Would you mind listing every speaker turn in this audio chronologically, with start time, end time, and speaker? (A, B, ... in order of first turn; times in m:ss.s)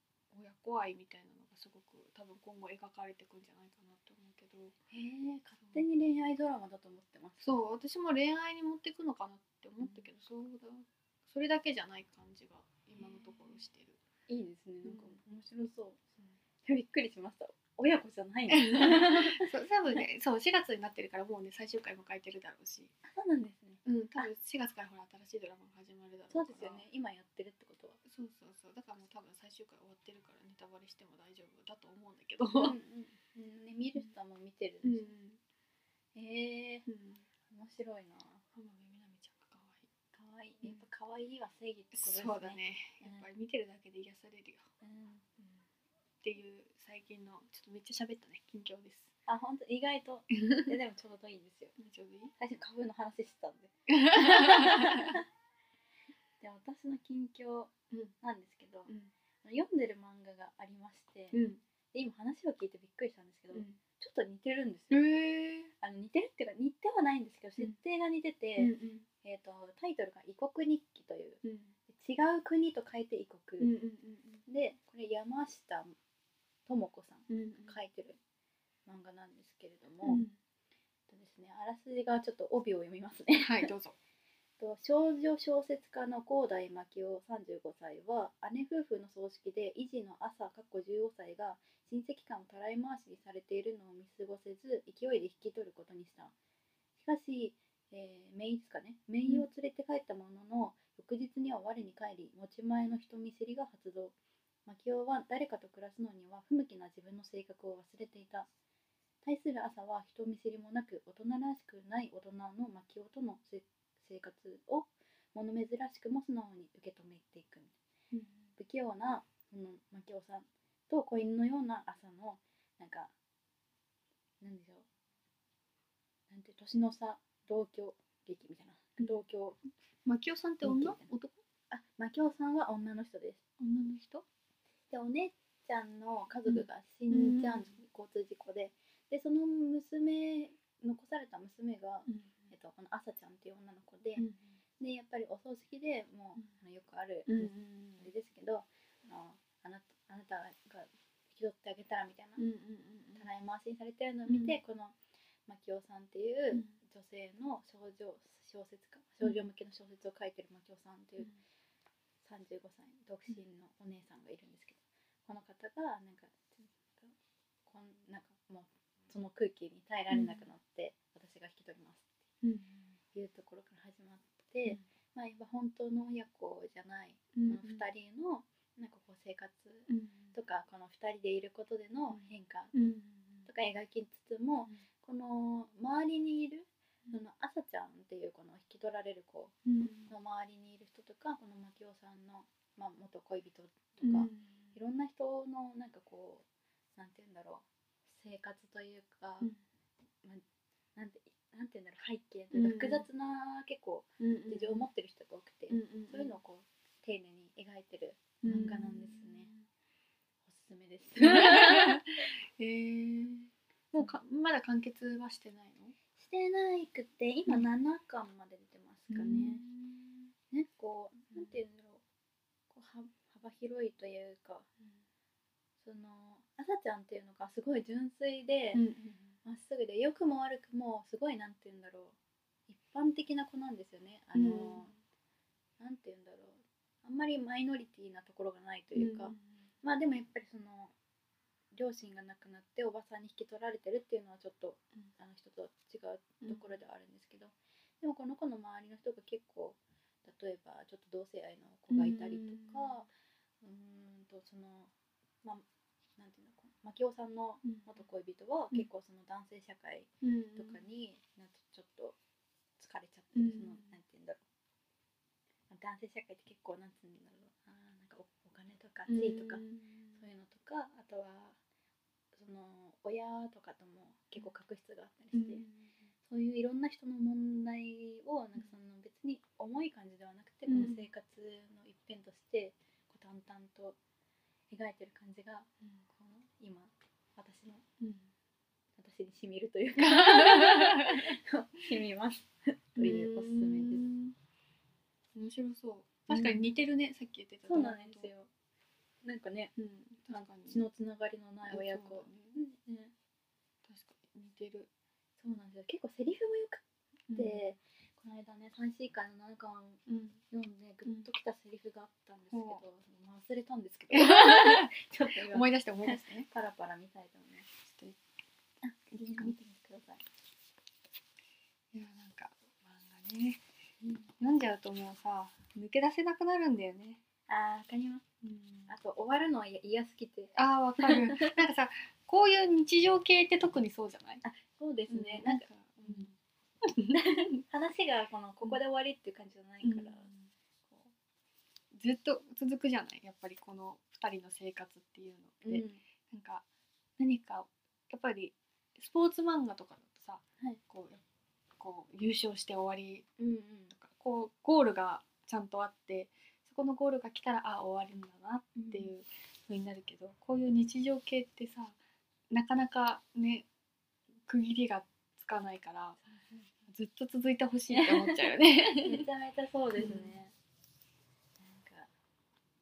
0:00.3-0:04.8 A
0:04.9-0:07.6 B
0:07.4-0:14.0 A
0:14.3-0:19.5 B
0:14.8-0:15.2 A
0:18.5-0:22.9 A
0:23.0-0:24.2 B
0:23.8-0:26.8 A
0:26.3-0:28.0 B
0:28.1-0:32.7 A
0:32.5-0:35.1 B
0:34.8-0:35.4 A
0:36.1-0:36.9 B
0:36.9-0:37.2 A
0:37.5-0:38.4 B
0:38.5-0:39.9 A
0:40.1-0:43.2 B
0:41.9-0:44.7 A
0:44.8-0:45.6 B
0:46.2-0:49.1 A
0:49.3-0:51.7 B
0:50.4-0:50.7 A
0:51.8-0:52.3 A
0:52.4-0:55.2 B
0:53.9-0:55.2 A
0:56.4-0:58.9 B
0:59.4-1:01.4 B
1:01.3-1:01.6 A
1:01.9-1:05.1 B
1:03.5-1:03.8 A
1:04.9-1:05.7 A
1:05.8-1:13.7 B
1:08.6-1:09.0 A
1:11.4-1:11.7 A
1:13.6-1:14.4 A
1:14.4-1:16.0 B
1:16.6-1:18.2 B
1:17.3-1:17.8 A
1:18.8-1:20.2 B
1:20.0-1:20.4 A
1:21.1-1:23.7 B
1:23.4-1:23.9 A
1:24.6-1:36.3 B
1:37.0-1:44.1 B
1:44.6-1:48.5 B
1:49.2-1:57.7 B
1:58.1-1:58.4 A
1:58.6-2:03.1 B
2:04.4-2:04.9 B
2:06.3-2:09.6 B
2:10.0-2:11.4 A
2:10.6-2:11.1 B
2:11.7-2:13.4 B
2:13.6-2:14.2 A
2:14.9-2:24.3 B
2:16.4-2:17.7 A
2:22.1-2:22.5 A
2:24.2-2:24.6 A
2:24.8-2:32.4 B
2:27.3-2:28.1 A
2:32.4-2:33.2 A
2:33.2-2:35.0 B
2:34.3-2:34.6 A
2:35.5-2:41.3 B
2:42.2-2:47.1 B
2:47.6-2:52.1 B
2:50.1-2:50.4 A
2:52.4-2:52.8 A
2:53.1-3:02.7 B
2:57.3-2:57.8 A
2:59.9-3:00.3 A
3:02.1-3:03.4 A
3:03.4-3:16.4 B
3:09.6-3:10.1 A
3:14.0-3:14.7 A
3:17.0-3:19.5 B
3:21.0-3:29.5 B
3:22.5-3:23.0 A
3:24.2-3:24.8 A
3:25.7-3:26.4 A
3:28.4-3:29.6 A
3:30.4-3:32.0 B
3:31.2-3:35.9 A
3:36.2-3:39.6 B
3:39.1-3:40.2 A
3:40.5-3:42.0 B
3:42.7-3:44.7 B
3:45.8-3:48.8 B
3:48.7-3:49.2 A
3:49.4-3:52.1 B
3:52.7-3:54.9 B
3:54.3-3:54.9 A
3:55.8-4:00.9 B
3:59.0-3:59.6 A
4:01.7-4:13.1 B
4:06.4-4:06.7 A
4:11.9-4:13.0 A
4:13.6-4:14.9 B
4:16.2-4:22.2 B
4:20.2-4:20.8 A
4:22.8-4:24.4 B
4:23.3-4:23.9 A
4:25.7-4:31.6 B
4:29.1-4:30.2 A
4:32.3-4:35.6 B
4:35.3-4:35.9 A
4:36.2-4:44.0 B
4:40.7-4:41.1 A
4:44.7-4:47.8 B
4:48.0-4:48.3 A
4:49.0-4:54.1 B
4:50.0-4:51.3 A
4:53.0-4:54.3 A
4:55.3-4:58.3 A
4:56.3-4:56.6 B
4:57.6-4:58.5 B
4:59.2-4:59.7 B
4:59.8-5:00.8 A
5:00.3-5:03.1 B
5:01.7-5:02.6 A
5:03.8-5:04.9 A
5:05.4-5:06.8 B
5:07.3-5:07.6 A
5:07.3-5:17.7 B
5:10.1-5:10.4 A
5:12.5-5:12.8 A
5:14.1-5:16.5 A
5:17.8-5:18.2 A
5:18.8-5:20.2 B
5:19.1-5:19.5 A
5:21.9-5:23.6 A
5:24.0-5:24.3 B
5:24.4-5:27.2 A
5:27.5-5:28.2 B
5:28.4-5:28.9 A
5:28.9-5:31.6 B
5:30.5-5:34.4 A
5:34.4-5:36.3 B
5:35.1-5:36.3 A
5:36.9-5:37.4 A
5:37.1-5:40.3 B
5:39.8-5:40.5 A
5:40.9-5:41.1 B
5:41.9-5:46.6 A
5:45.6-5:46.0 B
5:47.2-5:51.2 A
5:51.8-5:53.3 A
5:53.4-5:53.9 B
5:53.9-6:02.0 A
5:58.7-5:59.1 B
6:02.5-6:03.7 A
6:04.4-6:06.2 A
6:06.2-6:06.7 B
6:06.9-6:09.3 A
6:07.9-6:10.5 B
6:10.0-6:10.4 A
6:11.6-6:12.1 B